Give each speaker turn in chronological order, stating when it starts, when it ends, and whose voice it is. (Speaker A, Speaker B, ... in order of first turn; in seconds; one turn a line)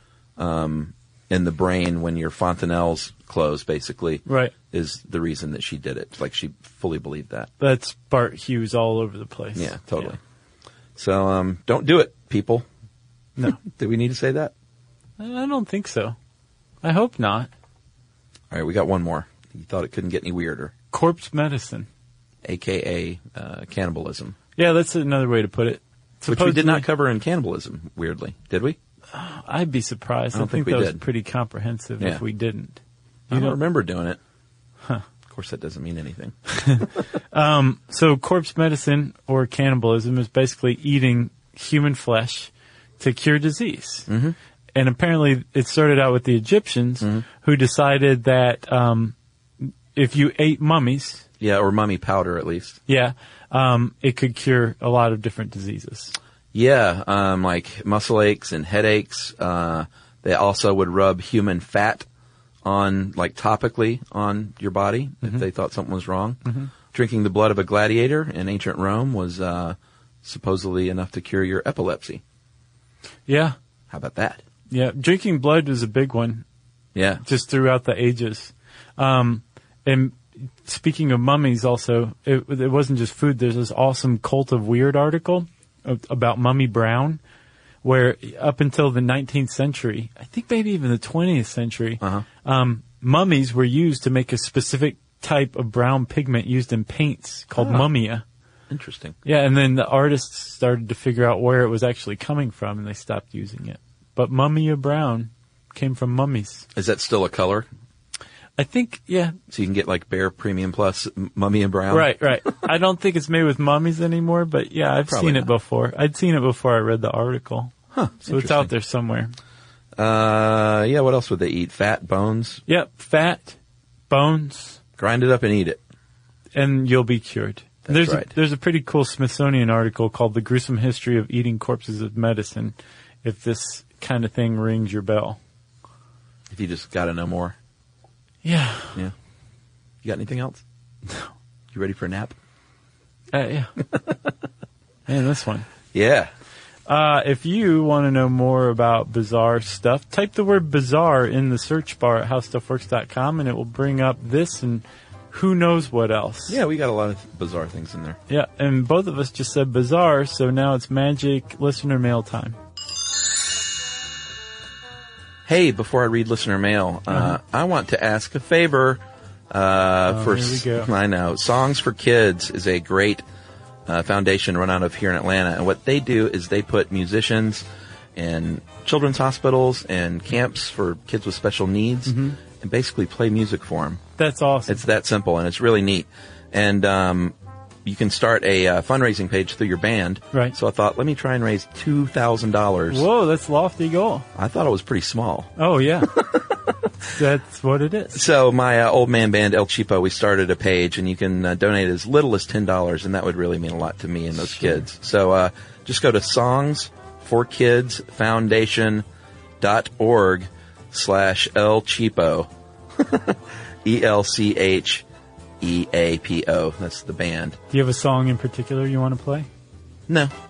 Speaker A: 0.4-7.5
Speaker B: 4.2-4.5
Speaker B: 7.6-10.1
Speaker A: 9.6-10.2
Speaker A: 10.9-12.7
Speaker A: 13.4-14.5
Speaker B: 15.2-16.1
Speaker B: 16.8-17.5
Speaker A: 18.5-20.7
Speaker B: 20.9-21.9
Speaker A: 22.4-24.4
Speaker B: 24.6-26.9
Speaker A: 26.3-28.8
Speaker B: 29.1-32.8
Speaker A: 30.3-31.0
Speaker A: 33.3-34.2
Speaker B: 33.3-33.6
Speaker A: 35.3-36.8
Speaker B: 36.5-44.1
Speaker A: 44.1-44.3
Speaker B: 44.7-51.2
Speaker A: 51.4-52.8
Speaker B: 52.9-56.1
Speaker A: 56.5-62.1
Speaker A: 62.6-72.2
Speaker B: 73.3-73.5
Speaker A: 73.9-74.4
Speaker B: 74.7-76.4
Speaker A: 76.9-77.2
Speaker B: 77.2-87.2
Speaker B: 87.8-98.2
Speaker A: 97.6-97.9
Speaker A: 98.7-99.2
Speaker B: 99.2-106.7
Speaker A: 106.7-107.7
Speaker B: 108.6-109.3
Speaker A: 109.5-112.1
Speaker B: 111.9-117.7
Speaker A: 115.1-115.5
Speaker A: 117.9-118.7
Speaker B: 118.2-119.3
Speaker A: 120.0-122.6
Speaker B: 122.7-123.6
Speaker B: 124.1-124.8
Speaker A: 125.0-125.8
Speaker B: 126.5-135.4
Speaker A: 127.8-128.3
Speaker A: 136.5-137.6
Speaker B: 138.4-139.0
Speaker A: 140.0-140.6
Speaker A: 141.7-142.3
Speaker B: 143.3-143.8
Speaker B: 145.1-145.7
Speaker A: 145.9-146.3
Speaker B: 146.9-156.6
Speaker A: 156.5-158.2
Speaker B: 158.3-162.6
Speaker A: 165.4-173.2
Speaker B: 170.1-170.9
Speaker A: 173.9-184.0
Speaker B: 182.1-182.4
Speaker B: 184.2-184.8
Speaker A: 184.7-193.1
Speaker B: 192.9-194.3
Speaker A: 194.3-195.5
Speaker B: 195.6-196.2
Speaker A: 196.1-196.5
Speaker B: 197.0-198.2
Speaker A: 198.1-209.0
Speaker A: 209.6-215.0
Speaker A: 215.6-217.6
Speaker B: 217.7-219.5
Speaker A: 220.1-220.3